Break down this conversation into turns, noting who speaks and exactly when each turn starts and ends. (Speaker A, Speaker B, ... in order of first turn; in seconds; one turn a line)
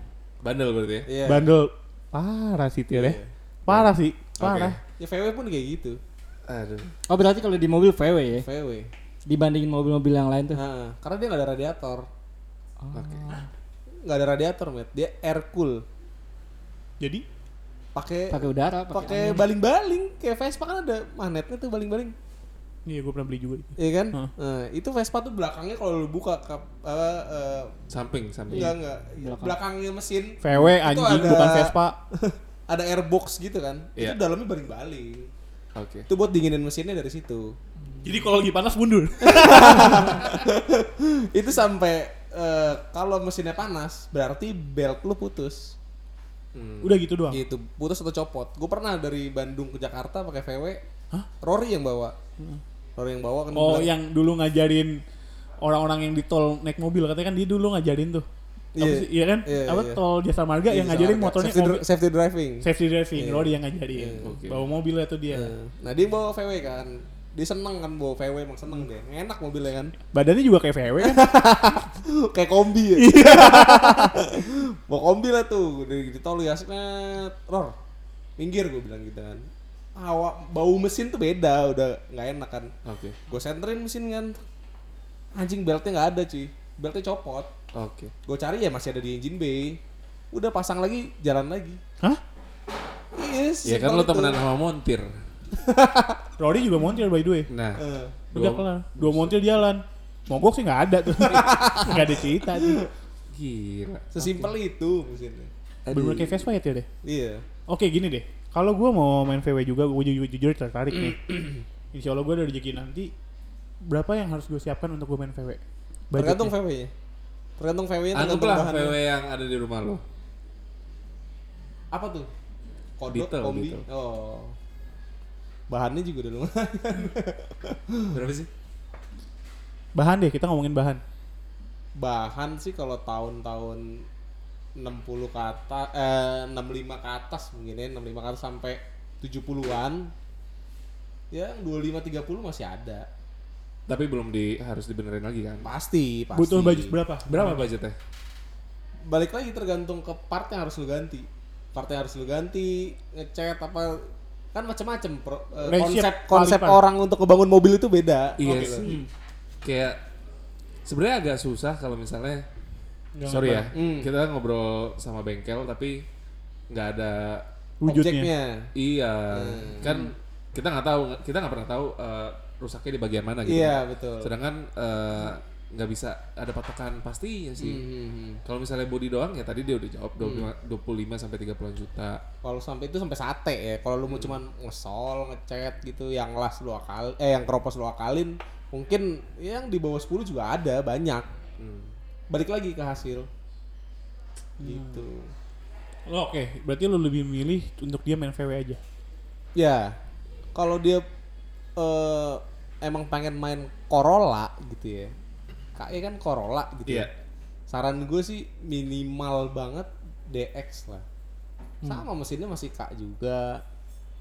Speaker A: 0.4-1.1
Speaker B: 1.1-1.5
Speaker C: 1.2-4.8
Speaker B: 2.9-3.3
Speaker A: 4.4-4.8
Speaker B: 5.0-6.0
Speaker A: 6.5-6.9
Speaker D: 7.1-8.5
Speaker B: 8.4-8.9
Speaker D: 9.2-10.6
Speaker B: 10.5-12.1
Speaker D: 12.8-13.4
Speaker A: 12.9-13.3
Speaker B: 14.0-15.8
Speaker B: 17.9-22.1
Speaker D: 18.3-19.5
Speaker C: 22.9-24.3
Speaker B: 23.8-27.7
Speaker A: 27.9-28.7
Speaker D: 28.5-29.6
Speaker B: 28.5-35.3
Speaker C: 30.4-31.9
Speaker A: 35.7-36.1
Speaker B: 36.1-37.5
Speaker C: 38.0-40.3
Speaker B: 39.2-45.7
Speaker A: 46.5-46.9
Speaker C: 46.8-47.4
Speaker B: 47.3-50.8
Speaker B: 51.4-52.1
Speaker B: 53.0-53.9
Speaker C: 53.5-55.0
Speaker C: 55.6-58.2
Speaker B: 58.8-60.0
Speaker C: 58.8-61.8
Speaker B: 60.7-64.3
Speaker C: 62.6-65.5
Speaker A: 64.2-64.6
Speaker B: 65.3-70.0
Speaker C: 70.1-71.3
Speaker B: 71.0-77.7
Speaker C: 73.0-74.2
Speaker B: 78.4-82.7
Speaker A: 82.8-83.2
Speaker B: 83.3-84.4
Speaker B: 85.3-87.5
Speaker A: 87.7-88.1
Speaker B: 88.2-89.8
Speaker B: 90.3-91.8
Speaker B: 93.1-94.4
Speaker A: 93.6-95.1
Speaker B: 95.5-96.2
Speaker C: 96.4-97.5
Speaker A: 97.5-99.5
Speaker B: 97.8-98.2
Speaker C: 98.3-102.8
Speaker B: 101.2-102.9
Speaker A: 103.3-104.5
Speaker B: 104.1-105.5
Speaker A: 105.8-106.4
Speaker C: 105.9-106.9
Speaker B: 107.0-107.4
Speaker C: 107.7-111.3
Speaker C: 111.9-113.1
Speaker C: 113.8-116.5
Speaker B: 116.2-116.9
Speaker B: 117.6-119.0
Speaker A: 118.1-120.0
Speaker B: 121.9-122.3
Speaker B: 123.0-124.5
Speaker A: 123.1-123.8
Speaker B: 125.7-128.1
Speaker A: 128.1-128.5
Speaker C: 129.9-131.0
Speaker B: 131.9-134.0
Speaker B: 134.8-140.1
Speaker B: 141.3-143.1
Speaker A: 143.9-145.7
Speaker B: 145.6-146.9
Speaker C: 146.3-147.7
Speaker A: 147.2-148.0
Speaker B: 149.1-159.0
Speaker C: 155.6-156.8
Speaker A: 158.4-158.8
Speaker C: 158.4-159.1
Speaker A: 159.6-160.0
Speaker A: 160.8-162.4
Speaker C: 163.2-163.7
Speaker A: 163.2-166.1
Speaker B: 163.7-164.1
Speaker A: 166.7-167.4
Speaker C: 167.8-168.3
Speaker B: 167.8-168.7
Speaker A: 168.7-177.8
Speaker B: 169.3-170.0
Speaker B: 173.4-174.3
Speaker B: 177.6-178.4
Speaker A: 178.4-182.2
Speaker B: 180.2-180.5
Speaker B: 182.4-191.3
Speaker A: 184.0-184.4
Speaker A: 191.6-191.9
Speaker B: 192.3-193.3
Speaker C: 194.6-195.0
Speaker B: 194.6-195.3
Speaker C: 196.1-198.8
Speaker B: 199.5-200.0
Speaker B: 200.5-201.0
Speaker B: 201.8-205.1
Speaker B: 205.8-207.1
Speaker A: 206.8-207.1
Speaker B: 207.7-211.0
Speaker B: 211.8-213.6